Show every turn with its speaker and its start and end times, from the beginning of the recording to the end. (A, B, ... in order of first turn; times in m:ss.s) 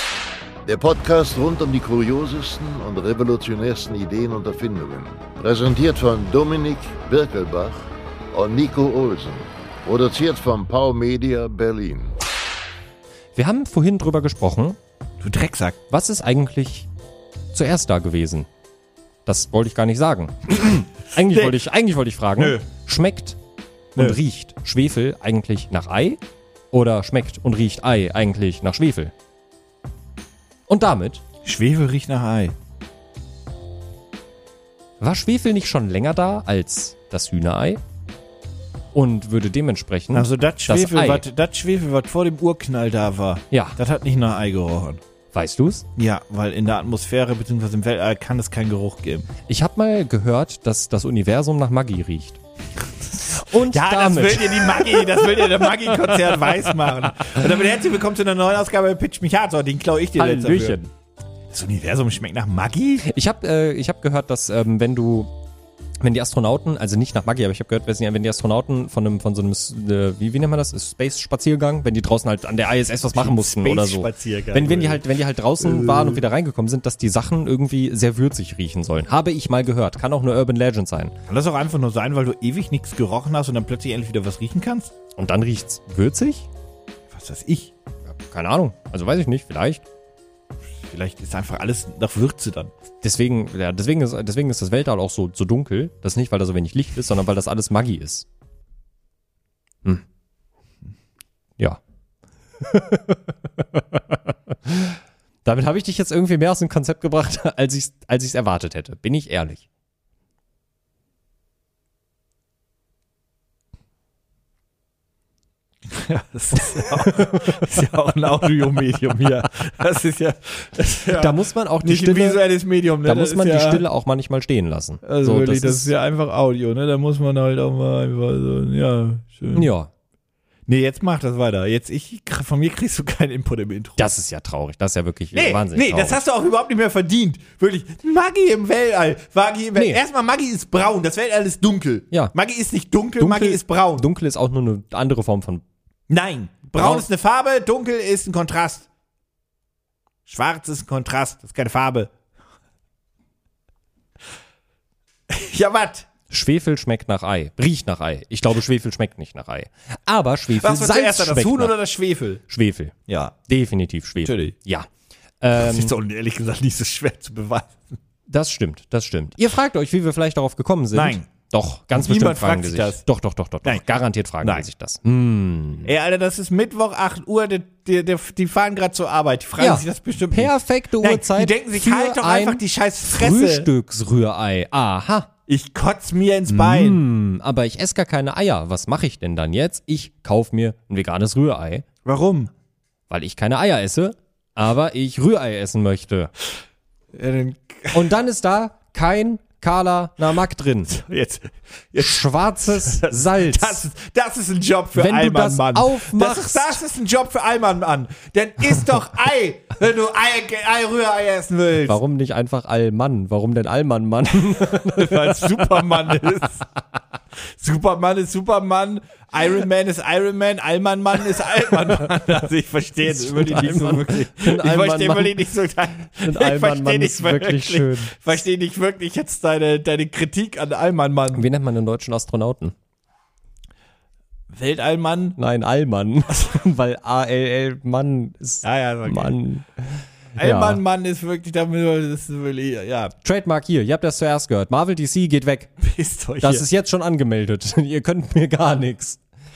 0:00.6-0:12.1 A
0:13.4-0:14.8 B
0:15.2-0:15.8 C
0:15.9-0:16.9 B
0:17.5-0:18.5 B
0:19.2-0:23.4 B
0:20.6-0:21.6 C
0:22.4-0:22.6 C
0:23.9-0:26.2 B
0:26.7-0:29.1 B
0:30.7-0:31.2 B
0:31.4-0:32.5 C
0:35.0-0:37.8 B
0:38.9-0:41.2 B
0:40.1-0:45.0 C
0:43.5-0:43.8 B
0:45.3-0:45.8 B
0:46.0-0:49.3 C
0:49.5-0:52.4 B
0:53.1-0:56.1 B
0:53.5-1:00.8 C
1:00.2-1:00.9 B
1:01.5-1:03.0 C
1:03.0-1:05.3 B
1:06.0-1:21.1 B
1:13.1-1:15.0 C
1:15.6-1:16.2 C
1:21.3-1:24.9 C
1:25.2-1:26.5 B
1:27.1-1:27.7 C
1:28.1-1:29.8 B
1:30.8-1:32.7 C
1:33.0-1:38.2 B
1:42.6-1:49.6 B
1:55.9-2:03.8 C
1:57.1-1:57.6 B
2:01.0-2:02.4 B
2:03.0-2:05.9 B
2:05.0-2:09.7 C
2:09.5-2:09.9 B
2:10.7-2:14.0 C
2:14.0-2:16.2 B
2:15.3-2:24.0 C
2:19.8-2:20.0 B
2:23.2-2:25.6 B
2:26.1-2:28.9 C
2:26.8-2:27.0 B
2:30.2-2:32.1 C
2:35.3-2:36.1 C
2:36.3-2:41.7 B
2:40.5-2:42.4 C
2:42.5-2:43.0 B
2:43.1-2:43.3 C
2:43.5-2:44.9 B
2:44.2-2:44.5 C
2:45.4-2:45.9 B
2:45.6-2:47.9 C
2:48.3-2:55.9 B
2:50.9-2:51.3 C
2:51.9-2:53.0 C
2:54.4-2:54.7 C
2:55.8-3:03.7 C
2:59.6-3:05.3 B
3:05.5-3:07.0 C
3:06.5-3:11.8 B
3:12.0-3:12.5 C
3:13.1-3:16.3 B
3:17.1-3:18.1 C
3:17.9-3:20.9 B
3:20.9-3:32.0 C
3:22.0-3:23.8 B
3:24.9-3:26.8 B
3:31.8-3:36.2 B
3:34.4-3:36.7 C
3:37.4-3:51.4 C
3:43.0-3:45.4 B
3:46.0-3:48.2 B
3:51.3-3:52.7 B
3:54.5-3:55.4 C
3:55.4-4:00.8 B
3:58.6-3:59.3 C
4:00.4-4:03.1 C
4:03.2-4:05.8 B
4:05.8-4:06.6 C
4:06.4-4:09.2 B